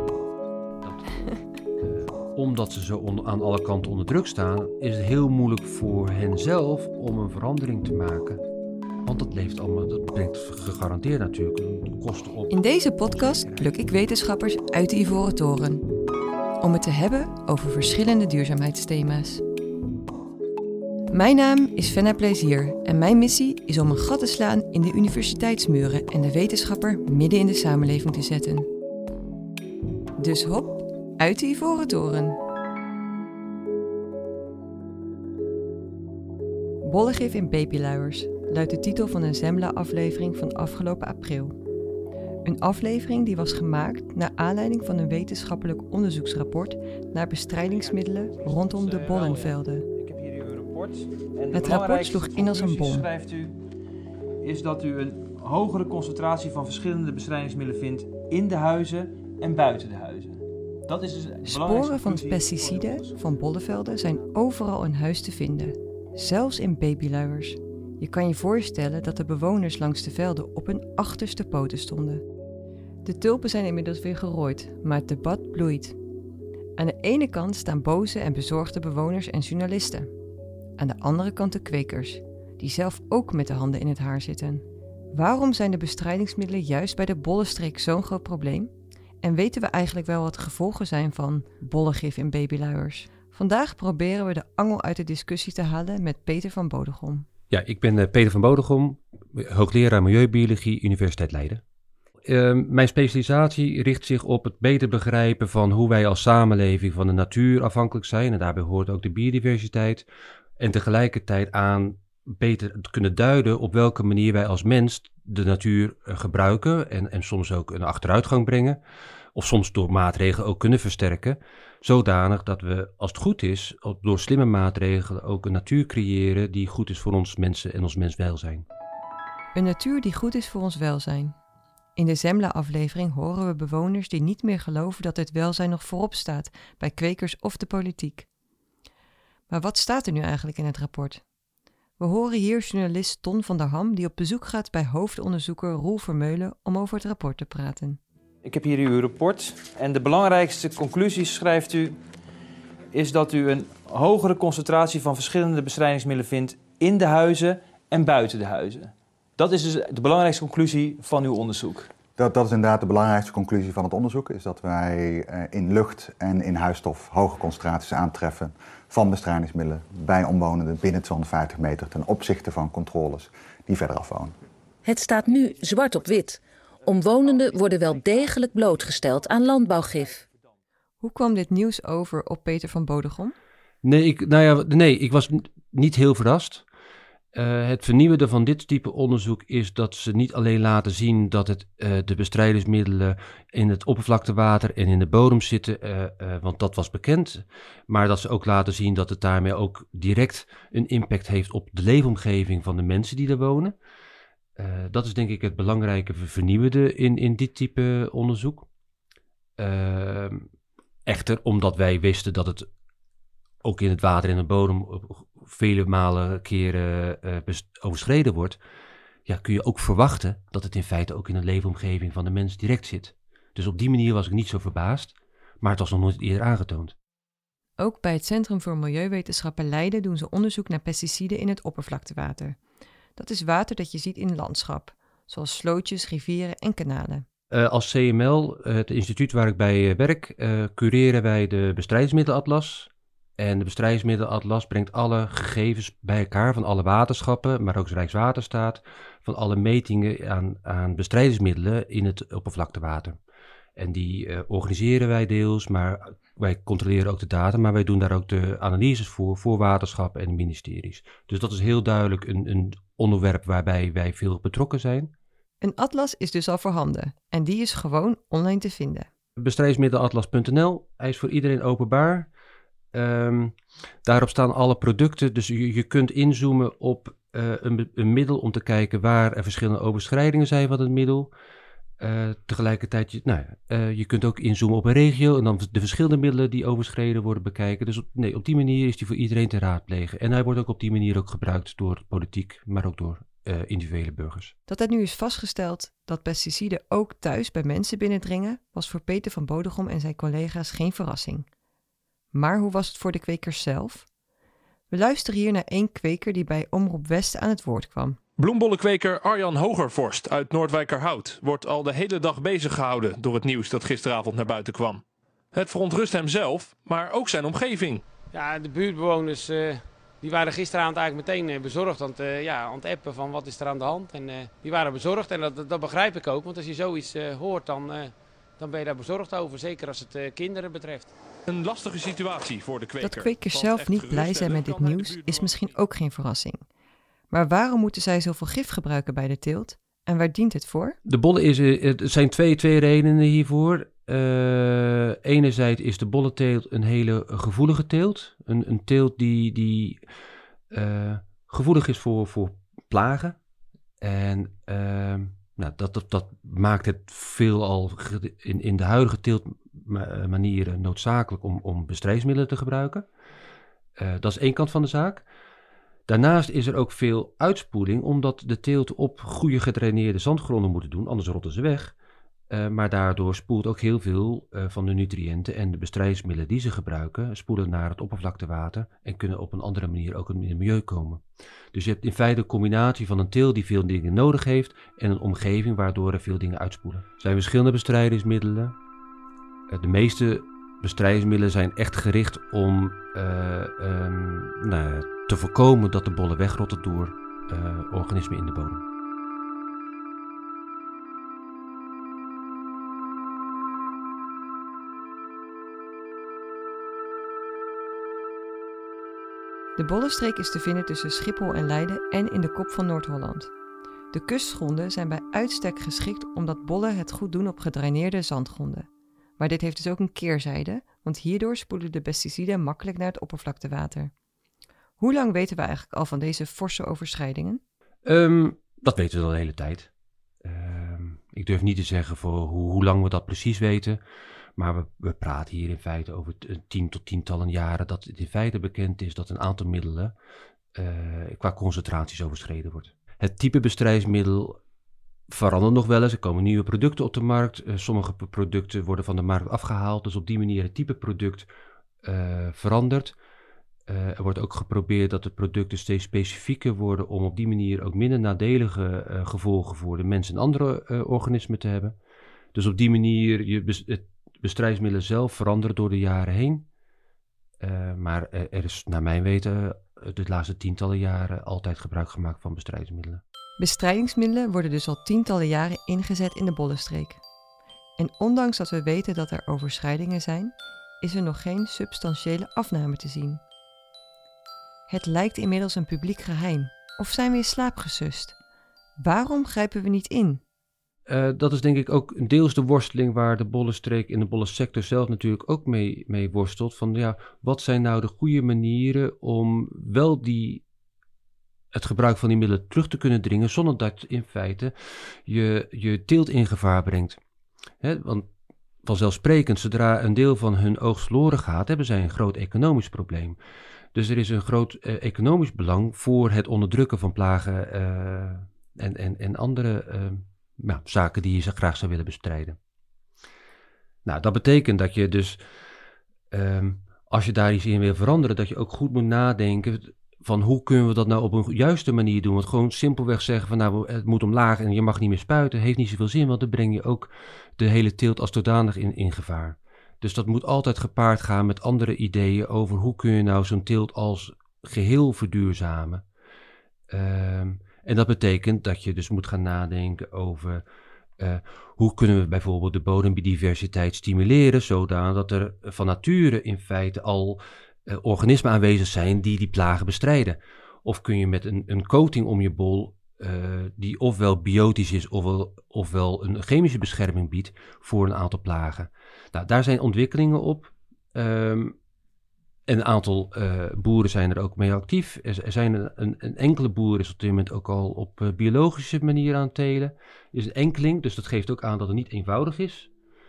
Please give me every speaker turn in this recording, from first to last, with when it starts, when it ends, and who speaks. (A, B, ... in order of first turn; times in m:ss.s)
0:00.8-0:01.1 A
0:01.8-0:08.4 A
0:09.0-0:13.7 A
0:12.5-0:15.8 B
0:16.6-0:19.4 B
0:21.1-0:28.7 B
0:30.2-0:32.4 B
0:36.8-0:41.5 B
0:42.4-0:49.8 B
0:48.7-0:49.0 C
0:49.0-0:53.6 D
0:51.5-0:53.1 B
0:54.4-1:03.3 D
1:01.4-1:12.2 B
1:13.0-1:16.0 B
1:16.8-1:20.1 B
1:20.8-1:28.7 B
1:29.2-1:37.3 B
1:37.5-1:41.6 A
1:42.2-1:50.0 A
1:50.6-1:58.8 A
1:59.3-2:08.6 A
2:09.5-2:11.4 B
2:12.0-2:18.3 B
2:19.5-2:21.2 B
2:22.0-2:28.0 B
2:28.4-2:32.0 D
2:32.9-2:41.9 D
2:42.2-2:54.3 E
2:54.8-3:00.2 F
2:55.3-2:56.2 D
2:56.9-3:00.0 D
3:01.0-3:03.3 B
3:03.8-3:06.6 A
3:07.3-3:23.7 A
3:24.6-3:28.7 A
3:29.6-3:30.5 A
3:31.0-3:32.7 A
3:33.6-3:38.6 A
3:39.2-3:46.9 A
3:47.8-3:52.6 B
3:53.2-3:57.2 B
3:57.5-4:13.2 A
4:13.8-4:25.1 A
4:25.6-4:29.1 B
4:29.4-4:32.3 A
4:32.9-4:41.3 A
4:42.0-4:54.5 A
4:54.7-5:01.4 B
5:02.3-5:04.0 B
5:04.9-5:08.2 B
5:08.4-5:15.0 G
5:15.5-5:18.0 G
5:18.3-5:31.1 C
5:31.5-5:35.7 G
5:33.0-5:36.6 B
5:37.3-5:41.0 B
5:41.0-5:50.0 A
5:50.7-5:53.4 A
5:54.0-6:03.1 A
6:04.0-6:05.2 A
6:06.1-6:11.9 A
6:12.5-6:28.8 A
6:29.7-6:38.8 A
6:49.8-6:53.5 B
6:54.1-6:58.8 B
6:59.4-7:04.1 B
7:05.0-7:07.6 B
7:08.0-7:09.9 A
7:10.4-7:14.0 A
7:14.6-7:20.1 A
7:20.7-7:24.6 A
7:25.3-7:31.5 A
7:32.0-7:33.2 A
7:33.9-7:41.9 A
7:42.5-7:46.6 A
7:47.6-7:53.2 A
7:53.6-7:57.2 B
7:58.0-8:03.4 B
8:04.9-8:08.3 B
8:09.0-8:10.4 B
8:11.1-8:20.6 A
8:21.7-8:27.2 A
8:27.8-8:28.3 A
8:28.8-8:33.4 A
8:33.9-8:42.6 A
8:44.0-8:45.4 A
8:46.3-9:06.0 A
9:06.9-9:10.6 A
9:11.2-9:31.7 A
9:32.7-9:42.9 A